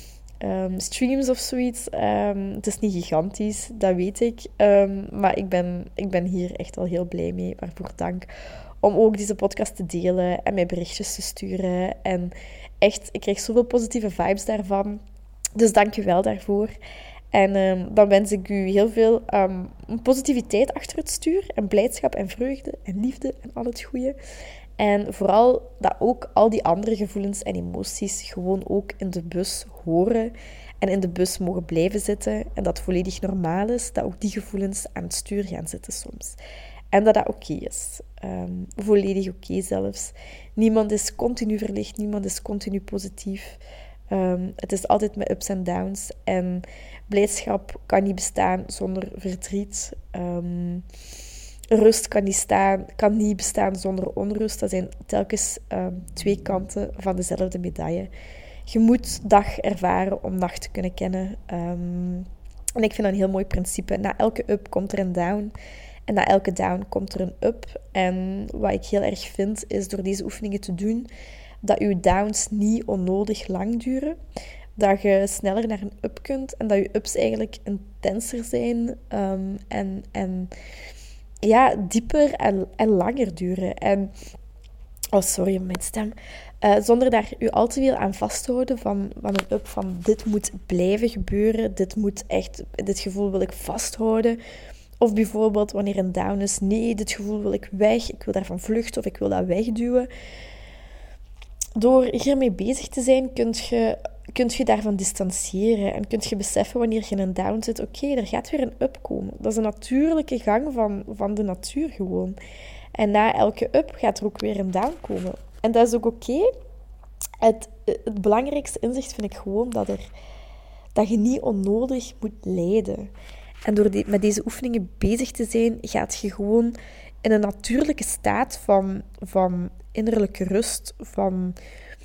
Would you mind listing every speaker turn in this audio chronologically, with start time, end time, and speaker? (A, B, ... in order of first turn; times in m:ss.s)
0:00.4-0:08.3 A
0:08.8-0:15.0 A
0:15.6-0:16.7 A
0:17.3-0:24.2 A
0:24.8-0:36.4 A
0:36.9-0:50.8 A
0:51.7-0:58.1 A
0:58.7-1:05.5 A
1:06.1-1:11.1 A
1:11.6-1:14.2 A
1:14.8-1:20.5 A
1:21.4-1:24.1 A
1:25.1-1:34.4 A
1:35.0-1:40.1 A
1:41.8-1:52.4 A
1:53.0-1:56.5 A
1:57.4-2:00.1 A
2:01.0-2:03.1 A
2:03.7-2:11.6 A